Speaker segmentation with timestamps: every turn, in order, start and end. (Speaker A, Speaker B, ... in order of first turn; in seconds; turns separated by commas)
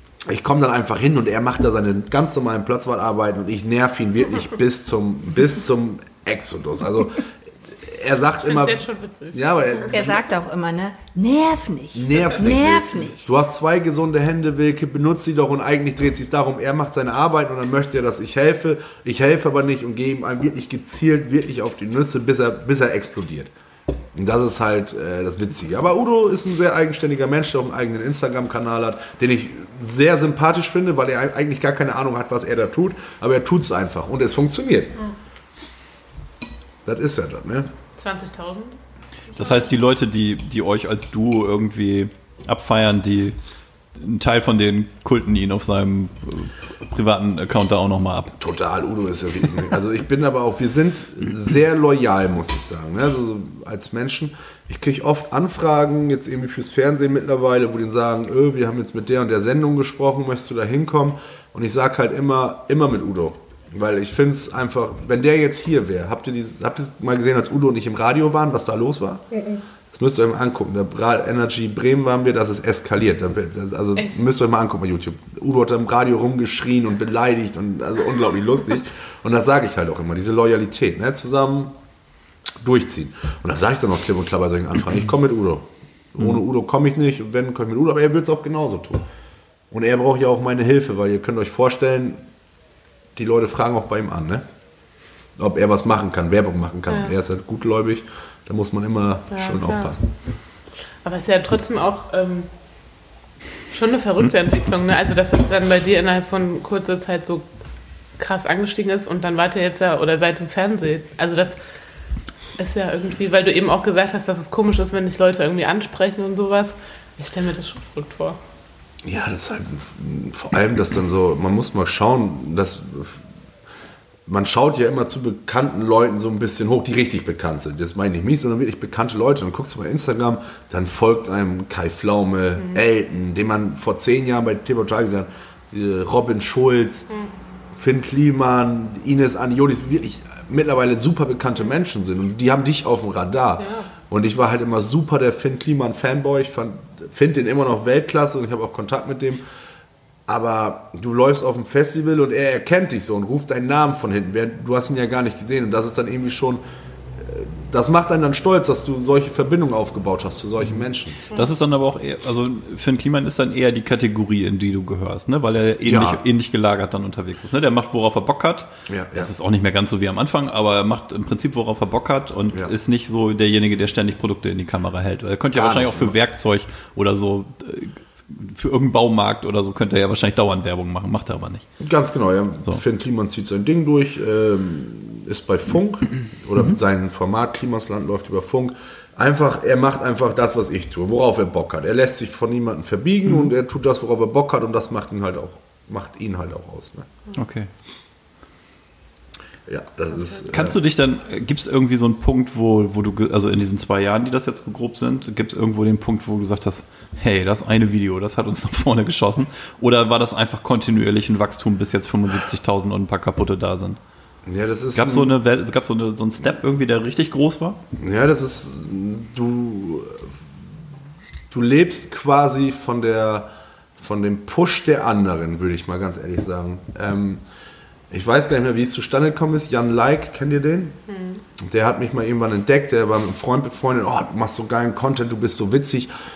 Speaker A: 0.2-10.2, Speaker B: 8.4-10.0, Speaker C: 9.9-13.3, Speaker A: 11.9-23.5, Speaker A: 24.1-35.0, Speaker A: 36.8-37.7, Speaker B: 38.0-38.8, Speaker B: 39.3-39.7, Speaker D: 39.4-43.4, Speaker D: 43.9-48.4, Speaker A: 48.4-69.2, Speaker A: 69.9-81.7, Speaker B: 74.0-74.2, Speaker A: 82.6-89.0, Speaker A: 89.7-92.2, Speaker A: 93.2-94.4, Speaker A: 95.4-100.0, Speaker B: 96.9-97.1, Speaker B: 99.3-99.9, Speaker B: 101.0-102.5, Speaker B: 103.7-107.5, Speaker B: 108.2-111.6, Speaker B: 112.6-118.4, Speaker A: 119.0-123.2, Speaker A: 124.2-137.1, Speaker A: 137.8-149.4, Speaker B: 143.6-143.9, Speaker A: 150.3-156.6, Speaker A: 157.2-161.2, Speaker B: 161.3-161.6, Speaker D: 161.3-181.7, Speaker A: 165.8-166.2, Speaker A: 168.9-169.3, Speaker A: 175.5-176.1, Speaker A: 181.8-197.1, Speaker D: 197.3-197.7, Speaker A: 199.7-200.8, Speaker D: 200.5-214.0, Speaker A: 214.4-215.3, Speaker D: 214.9-217.8, Speaker A: 218.0-220.3, Speaker A: 221.5-227.4, Speaker A: 228.1-230.9, Speaker B: 231.1-231.4, Speaker A: 231.6-236.1